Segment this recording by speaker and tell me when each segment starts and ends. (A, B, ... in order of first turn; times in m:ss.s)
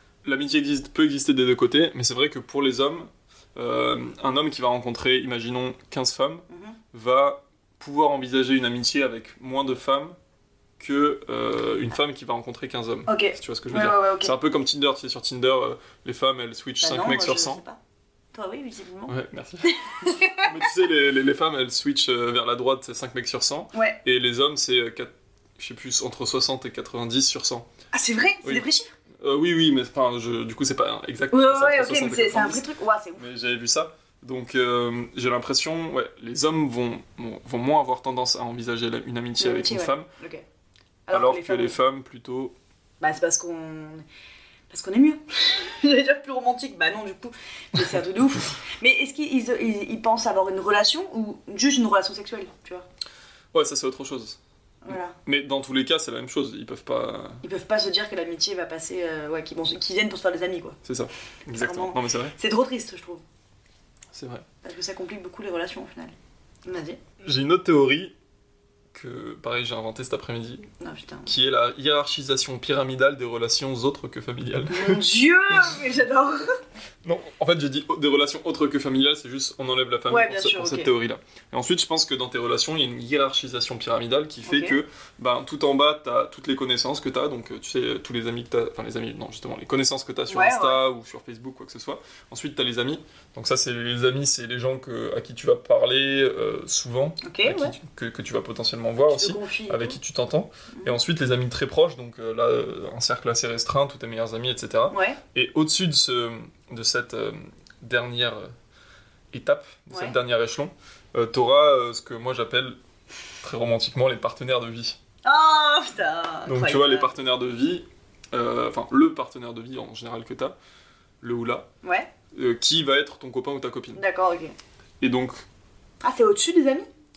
0:00.2-0:10.2 A
0:06.5-0:06.8 B
0:10.8-0:17.6 A
0:13.1-0:14.4 B
0:16.8-0:17.8 B
0:18.3-0:19.1 B
0:19.1-0:27.7 A
0:19.6-0:20.6 B
0:23.7-0:24.0 B
0:27.9-0:28.9 B
0:29.2-0:32.6 A
0:31.3-0:33.2 B
0:33.2-0:40.1 A
0:39.4-0:40.4 B
0:41.1-0:41.8 B
0:41.1-0:42.5 A
0:43.0-0:44.0 B
0:44.7-0:52.8 B
0:53.5-0:54.4 A
0:54.8-0:55.2 B
0:54.9-0:57.4 A
0:57.4-1:00.8 B
1:00.8-1:02.4 A
1:01.5-1:03.2 B
1:04.1-1:04.4 A
1:04.6-1:07.0 B
1:07.2-1:08.1 A
1:08.9-1:10.7 A
1:10.8-1:11.3 B
1:11.2-1:15.0 A
1:14.7-1:16.6 B
1:17.0-1:48.5 A
1:20.1-1:20.9 B
1:24.4-1:24.8 B
1:30.3-1:30.8 B
1:37.2-1:37.7 B
1:39.1-1:40.0 B
1:44.9-1:45.2 B
1:49.3-1:52.8 A
1:53.4-1:55.0 A
1:55.2-1:57.1 B
1:56.4-2:00.6 A
2:01.2-2:01.7 A
2:01.8-2:02.1 B
2:02.3-2:04.0 A
2:03.9-2:04.5 B
2:05.0-2:05.4 A
2:06.0-2:06.9 B